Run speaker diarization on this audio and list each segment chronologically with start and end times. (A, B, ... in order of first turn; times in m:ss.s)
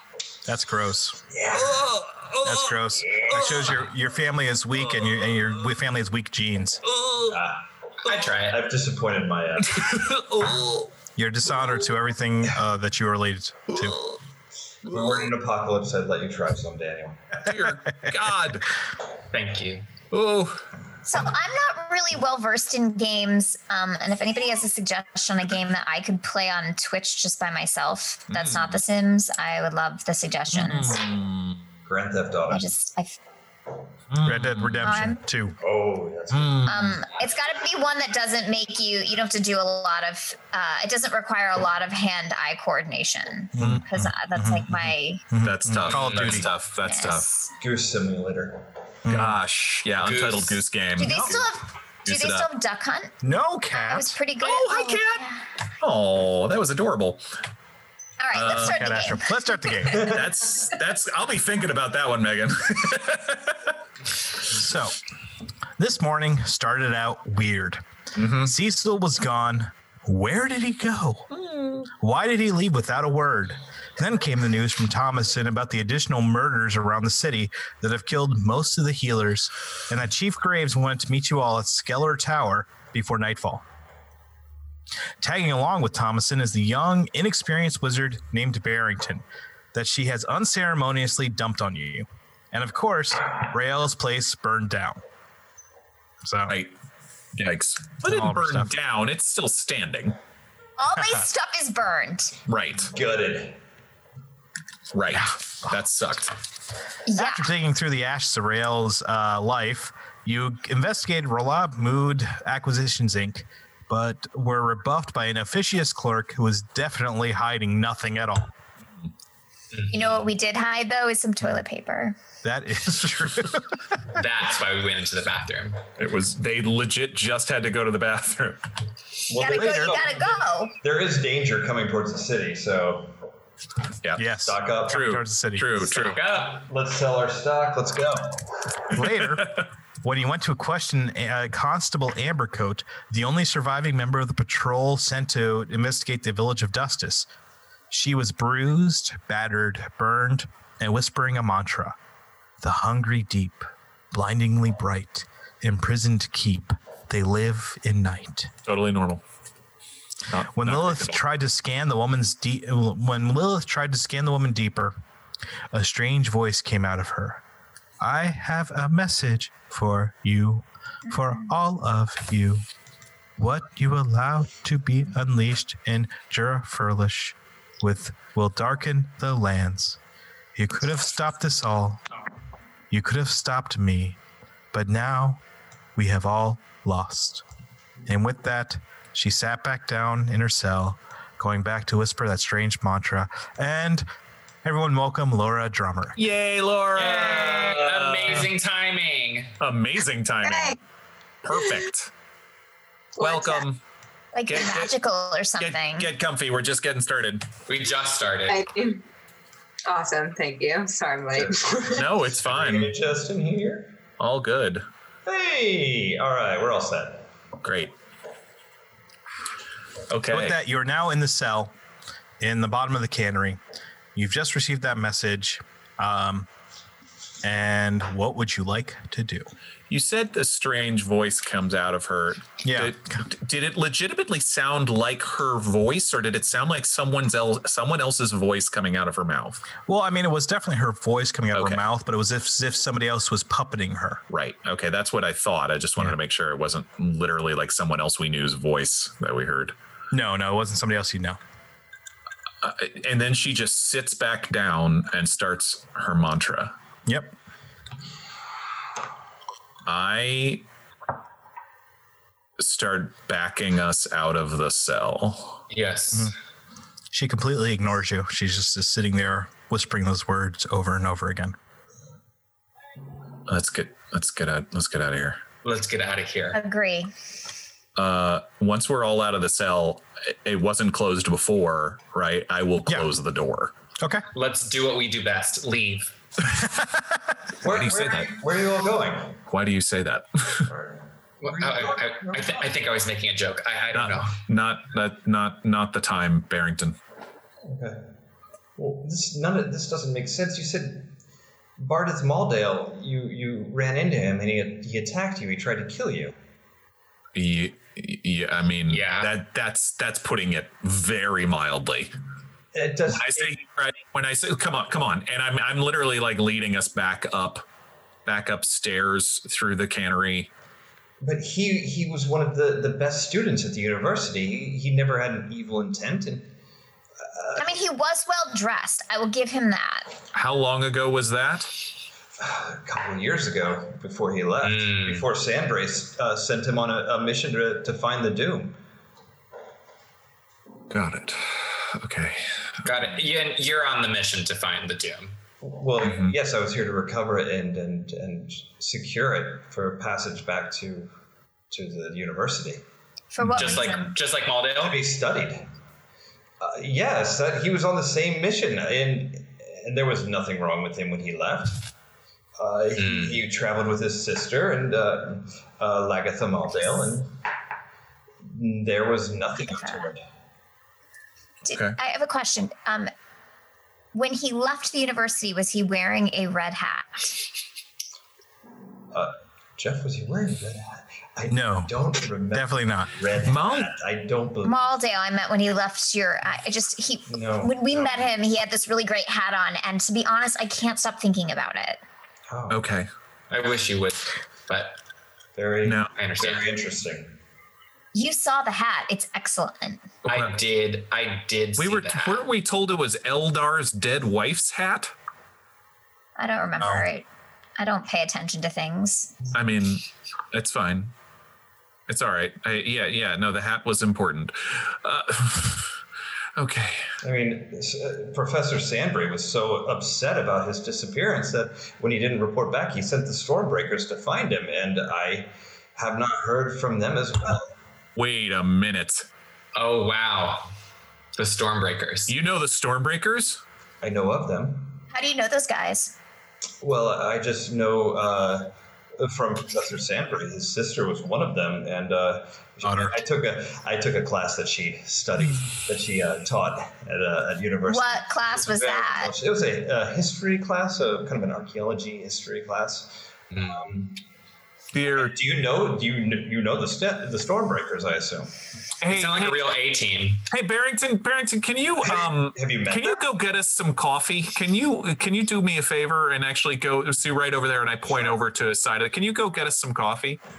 0:00.5-0:01.2 A
0:01.3-0:01.8 B
0:01.5-0:03.8 C
0:02.4-0:06.8 A
0:03.1-0:03.6 B
0:04.9-0:05.5 C
0:06.8-0:07.4 C
0:07.3-0:10.1 B
0:08.0-0:08.6 D
0:09.7-0:10.9 C
0:11.2-0:14.0 A
0:13.7-0:14.2 C
0:14.8-0:17.4 B
0:14.9-0:15.3 C
0:17.4-0:18.7 C
0:17.6-0:18.2 A
0:19.3-0:19.9 D
0:20.1-0:20.6 C
0:21.1-0:31.0 E
0:28.3-0:28.8 C
0:30.5-0:31.6 C
0:31.9-0:32.7 B
0:32.5-0:33.2 E
0:34.1-0:34.8 C
0:34.2-0:35.6 A
0:34.8-0:35.2 E
0:35.6-0:36.9 B
0:36.3-0:37.0 C
0:36.7-0:45.2 E
0:43.6-0:46.5 A
0:43.6-0:43.9 C
0:45.4-0:47.3 C
0:46.0-0:46.5 D
0:46.8-0:47.5 E
0:47.6-0:48.7 B
0:49.0-0:49.4 A
0:49.1-0:51.5 C
0:50.0-0:50.6 D
0:51.0-0:53.2 E
0:51.0-0:51.4 A
0:52.0-0:52.5 C
0:53.2-0:54.2 A
0:53.7-0:55.4 E
0:54.4-0:55.3 C
0:55.8-0:57.2 C
0:58.2-0:59.8 E
0:58.3-0:58.9 C
0:58.6-1:00.2 A
0:59.9-1:03.7 C
1:04.5-1:05.0 A
1:05.8-1:07.8 A
1:08.2-1:08.5 C
1:08.4-1:11.3 A
1:11.3-1:11.9 C
1:11.9-1:23.6 A
1:25.2-1:35.0 A
1:36.2-1:36.6 A
1:37.4-1:40.2 C
1:38.0-1:38.7 A
1:40.8-1:42.4 E
1:42.5-1:42.9 C
1:42.9-1:43.6 B
1:44.9-1:46.4 C
1:47.1-1:47.5 E
1:47.2-1:58.5 A
1:59.7-2:00.0 D
1:59.9-2:02.2 E
2:02.4-2:03.8 A
2:04.1-2:05.8 D
2:06.0-2:08.6 C
2:09.3-2:13.2 B
2:09.4-2:10.8 E
2:09.4-2:10.1 A
2:14.0-2:14.3 C
2:14.2-2:16.1 A
2:14.4-2:15.0 B
2:14.9-2:16.2 C
2:16.1-2:16.6 D
2:16.2-2:18.5 B
2:18.9-2:27.3 A
2:19.4-2:19.6 C
2:27.9-2:32.0 A
2:32.6-2:38.5 A
2:38.6-2:39.2 C
2:40.3-2:41.2 C
2:40.5-2:45.0 A
2:45.7-2:47.4 A
2:48.0-2:52.6 A
2:51.1-2:51.5 E
2:53.4-3:00.0 A
3:00.6-3:02.0 A
3:02.9-3:04.2 A
3:04.7-3:05.4 A
3:06.0-3:07.4 A
3:08.1-3:14.1 A
3:14.6-3:16.2 A
3:16.2-3:18.5 C
3:17.0-3:19.5 D
3:19.6-3:20.8 C
3:20.4-3:20.8 F
3:21.4-3:22.1 C
3:23.2-3:23.6 F
3:23.2-3:23.8 C
3:24.3-3:26.1 E
3:24.5-3:24.9 C
3:25.6-3:27.5 C
3:27.7-3:28.6 D
3:28.5-3:29.0 F
3:29.9-3:32.0 F
3:31.5-3:33.9 B
3:31.9-3:32.9 C
3:34.2-3:34.8 C
3:35.3-3:37.3 B
3:37.6-3:37.9 C
3:40.1-3:40.6 C
3:40.3-3:41.7 A
3:42.4-3:43.6 A
3:44.2-3:46.5 A
3:47.4-3:49.5 A
3:49.9-3:59.6 C
3:52.6-3:53.2 A
3:59.9-4:04.2 A
4:01.5-4:01.8 C
4:04.3-4:09.8 C
4:10.1-4:11.4 A
4:12.6-4:16.8 C
4:17.1-4:17.3 A
4:19.8-4:20.6 C
4:22.6-4:25.6 C
4:25.7-4:26.3 D
4:27.1-4:31.6 A
4:33.5-4:35.4 C
4:35.6-4:36.6 D
4:36.5-4:37.1 E
4:38.0-4:43.7 C
4:44.0-4:44.2 A
4:44.3-4:46.1 D
4:47.6-4:49.4 B
4:47.6-4:48.3 C
4:49.5-4:50.7 C
4:50.6-4:52.8 B
4:51.4-4:54.4 D
4:53.9-4:57.0 C
4:57.6-4:58.0 B
4:58.8-5:01.1 B
5:01.8-5:06.3 B
5:07.4-5:12.1 C
5:08.9-5:09.3 D
5:12.7-5:13.6 B
5:13.1-5:17.6 C
5:18.3-5:20.5 C
5:21.2-5:26.5 B
5:27.3-5:27.7 B
5:27.6-5:30.1 E
5:30.3-5:31.7 C
5:32.4-5:38.8 B
5:34.6-5:35.3 D
5:40.9-5:42.9 C
5:42.8-5:45.4 D
5:45.6-5:51.1 B
5:46.0-5:46.3 C
5:51.7-5:52.8 B
5:53.3-5:54.1 E
5:53.5-5:55.0 D
5:54.7-5:55.7 B
5:56.6-6:01.9 B
6:02.6-6:07.4 B
6:03.0-6:03.4 D
6:08.5-6:10.2 B
6:09.6-6:10.1 E
6:11.6-6:13.1 E
6:11.7-6:12.0 C
6:14.1-6:17.4 E
6:19.1-6:24.8 B
6:21.5-6:22.0 A
6:22.5-6:23.1 A
6:23.4-6:23.9 C
6:24.6-6:32.0 E
6:27.3-6:28.3 B
6:32.5-6:32.8 B
6:32.7-6:33.1 C
6:33.5-6:35.0 D
6:35.6-6:37.3 B
6:35.8-6:36.1 C
6:36.1-6:36.7 D
6:38.1-6:40.1 E
6:40.2-6:42.4 D
6:40.3-6:40.6 C
6:41.8-6:45.1 C
6:46.4-6:47.3 E
6:47.8-6:49.3 E
6:49.5-6:51.1 C
6:52.1-6:55.9 C
6:56.6-6:57.1 C
6:57.2-7:07.7 B
7:08.2-7:09.3 C
7:09.8-7:10.7 D
7:11.4-7:12.4 D
7:12.3-7:13.6 C
7:14.0-7:15.0 B
7:15.1-7:16.2 E
7:16.8-7:34.2 B
7:22.8-7:23.2 A
7:27.9-7:29.3 E
7:34.9-7:35.4 C
7:35.1-7:38.5 B
7:39.0-7:39.7 C
7:39.0-7:40.4 D
7:40.5-7:50.4 C
7:42.0-7:43.2 B